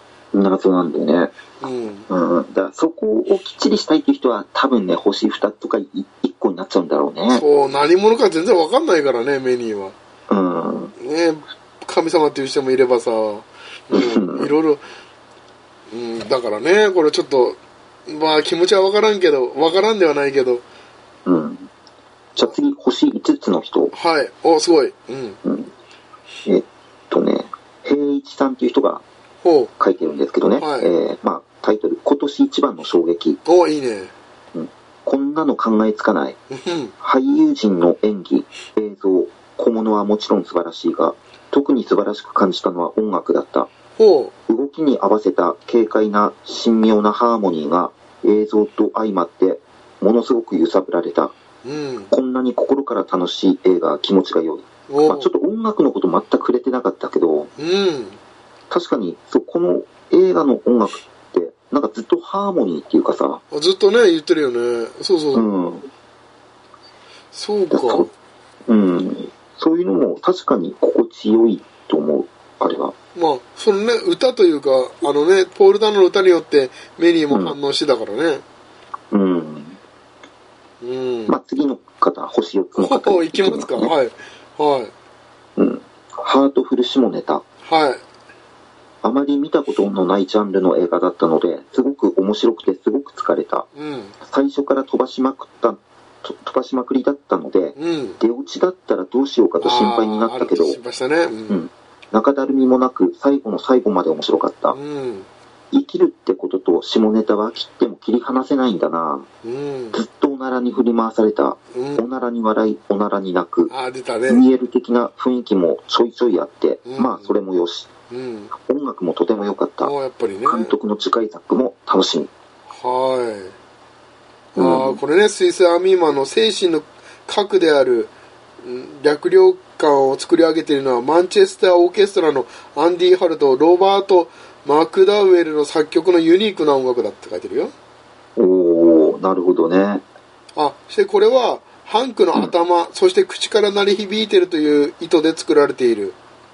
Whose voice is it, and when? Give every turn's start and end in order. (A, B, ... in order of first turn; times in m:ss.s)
0:00.3-0:01.3 A
0:01.6-0:02.1 B
0:02.1-0:07.4 A
0:07.3-0:09.9 B
0:10.3-0:10.9 A
0:11.0-0:14.8 B
0:13.9-0:14.5 A
0:15.9-0:20.6 B
0:21.2-0:21.7 A
0:22.4-0:23.9 A
0:23.9-0:25.4 B
0:25.4-0:25.7 A
0:26.4-0:29.0 A
0:29.4-0:29.7 B
0:29.8-0:33.4 A
0:30.6-0:30.9 B
0:33.4-0:34.1 B
0:34.5-0:36.4 A
0:36.5-0:36.9 B
0:37.0-0:43.7 A
0:44.0-0:44.3 B
0:44.5-0:51.3 A
0:51.6-0:52.1 B
0:52.1-0:57.5 A
0:54.9-0:55.3 B
0:57.6-0:58.2 B
0:58.7-1:03.4 A
1:03.5-1:05.5 B
1:05.3-1:05.9 A
1:07.3-1:08.1 B
1:07.7-1:08.1 A
1:08.7-1:12.9 A
1:13.1-1:18.4 B
1:17.3-1:17.6 A
1:19.1-1:19.8 A
1:20.8-1:21.3 B
1:21.3-1:23.9 A
1:22.8-1:24.9 B
1:25.6-1:27.4 A
1:27.6-1:28.0 B
1:29.0-1:33.7 A
1:33.7-1:34.2 B
1:34.2-1:40.8 A
1:37.8-1:38.2 B
1:39.6-1:41.6 B
1:41.5-1:44.8 A
1:44.7-1:45.3 B
1:45.7-1:49.2 A
1:49.4-1:50.0 B
1:49.9-1:53.7 A
1:51.7-1:52.0 B
1:53.7-1:54.4 B
1:54.3-1:57.9 A
1:56.8-1:57.3 B
1:58.1-1:58.5 B
1:58.6-1:59.9 A
1:59.8-2:00.7 B
2:00.4-2:02.3 A
2:02.7-2:03.5 B
2:04.6-2:05.0 A
2:04.6-2:17.7 B
2:18.4-2:20.0 A
2:20.6-2:26.2 B